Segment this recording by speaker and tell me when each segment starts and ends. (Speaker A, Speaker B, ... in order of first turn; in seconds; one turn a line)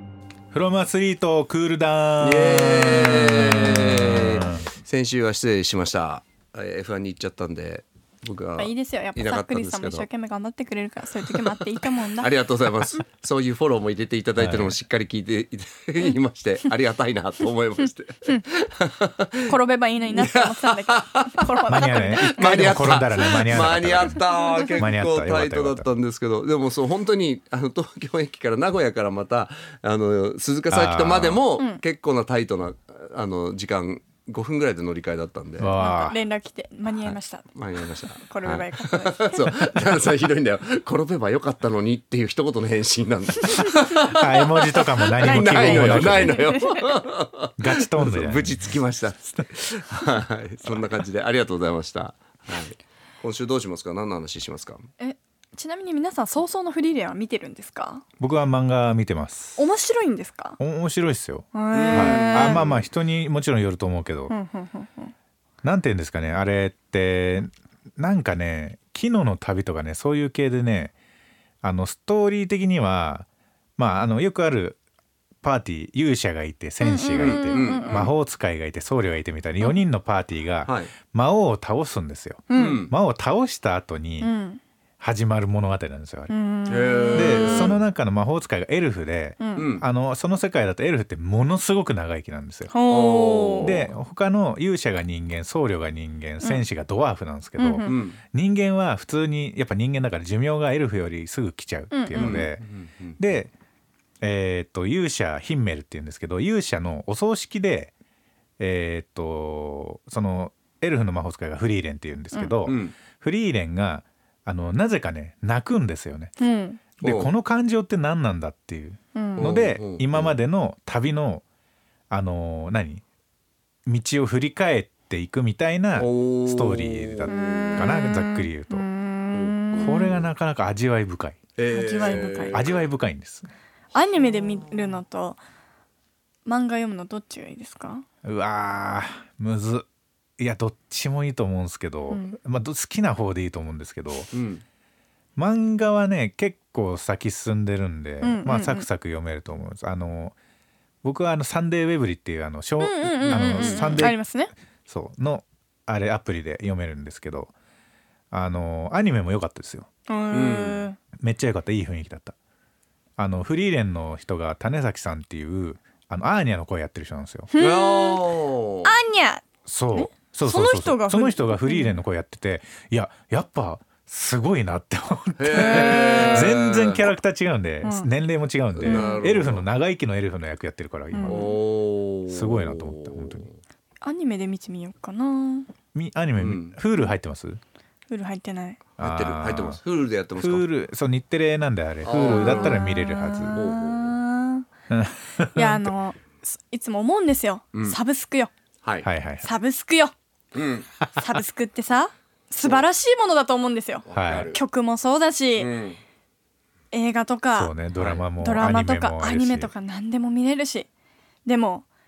Speaker A: 0.5-4.7
Speaker B: 2.2-10.1
Speaker C: 8.6-12.3
Speaker B: 12.1-19.5
Speaker A: 14.3-14.8
Speaker C: 19.5-22.8
Speaker B: 20.1-21.5
Speaker A: 21.7-24.2
Speaker B: 22.2-35.7
Speaker A: 24.8-25.9
Speaker A: 30.7-31.4
Speaker A: 35.6-36.2
Speaker C: 35.8-37.5
Speaker B: 37.5-54.9
Speaker C: 38.2-39.6
Speaker C: 43.4-46.9
Speaker A: 44.0-46.5
Speaker A: 47.6-48.7
Speaker C: 55.0-58.0
Speaker A: 58.2-59.6
Speaker C: 59.6-60.6
Speaker A: 60.6-64.3
Speaker C: 61.5-62.7
Speaker B: 61.7-62.7
Speaker C: 64.3-65.1
Speaker A: 65.6-70.9
Speaker A: 71.6-74.8
Speaker A: 75.4-84.3
Speaker C: 76.8-78.0
Speaker B: 77.2-78.1
Speaker B: 80.6-80.9
Speaker C: 82.5-82.8
Speaker B: 82.5-82.9
Speaker C: 84.2-84.6
Speaker A: 85.0-86.3
Speaker C: 86.3-87.8
Speaker B: 86.7-87.8
Speaker A: 87.1-92.7
Speaker C: 89.4-89.7
Speaker B: 89.5-89.8
Speaker C: 92.7-93.8
Speaker B: 92.9-93.9
Speaker A: 93.6-102.6
Speaker C: 97.6-98.0
Speaker B: 97.8-98.2
Speaker C: 101.9-102.4
Speaker B: 102.1-103.2
Speaker A: 103.2-103.5
Speaker A: 104.2-107.9
Speaker A: 108.6-116.3
Speaker B: 112.7-112.9
Speaker C: 116.4-116.8
Speaker A: 117.0-121.4
Speaker B: 117.0-117.3
Speaker C: 119.1-119.5
Speaker B: 119.4-120.3
Speaker A: 122.1-123.0
Speaker A: 123.8-128.8
Speaker B: 126.0-128.0
Speaker C: 127.3-130.2
Speaker B: 129.3-130.3
Speaker A: 129.8-131.4
Speaker B: 131.6-132.8
Speaker C: 131.7-132.6
Speaker A: 132.5-133.5
Speaker C: 133.9-135.4
Speaker C: 136.4-138.0
Speaker A: 138.2-139.8
Speaker A: 140.4-144.3
Speaker C: 142.1-142.4
Speaker B: 144.3-144.6
Speaker A: 145.3-150.3
Speaker C: 148.2-148.8
Speaker A: 151.0-154.2
Speaker C: 152.8-154.5
Speaker B: 153.2-154.1
Speaker A: 154.9-157.5
Speaker A: 158.3-159.9
Speaker C: 160.1-161.0
Speaker B: 160.3-160.8
Speaker A: 161.2-162.3
Speaker A: 163.2-167.5
Speaker C: 167.5-168.2
Speaker B: 167.6-168.9
Speaker C: 168.8-172.0
Speaker A: 169.7-181.5
Speaker B: 175.4-177.1
Speaker C: 175.5-176.6
Speaker C: 177.8-178.1
Speaker B: 178.8-179.6
Speaker C: 178.8-179.2
Speaker C: 181.1-181.5
Speaker B: 181.2-183.5
Speaker A: 182.3-183.5
Speaker C: 184.0-185.7
Speaker A: 185.9-187.6
Speaker B: 186.4-186.8
Speaker C: 188.1-188.8
Speaker A: 189.0-189.8
Speaker B: 189.0-190.6
Speaker A: 190.4-193.6
Speaker B: 192.0-192.8
Speaker C: 192.2-194.7
Speaker B: 193.5-194.1
Speaker A: 194.9-195.9
Speaker C: 195.5-198.5
Speaker A: 199.0-199.5
Speaker C: 199.4-200.1
Speaker B: 200.5-200.9
Speaker C: 201.2-205.7
Speaker B: 204.1-204.6
Speaker A: 204.1-204.5
Speaker B: 205.6-206.0
Speaker C: 206.9-207.7
Speaker A: 207.6-209.7
Speaker B: 208.0-208.2
Speaker C: 208.4-210.9
Speaker C: 211.4-211.8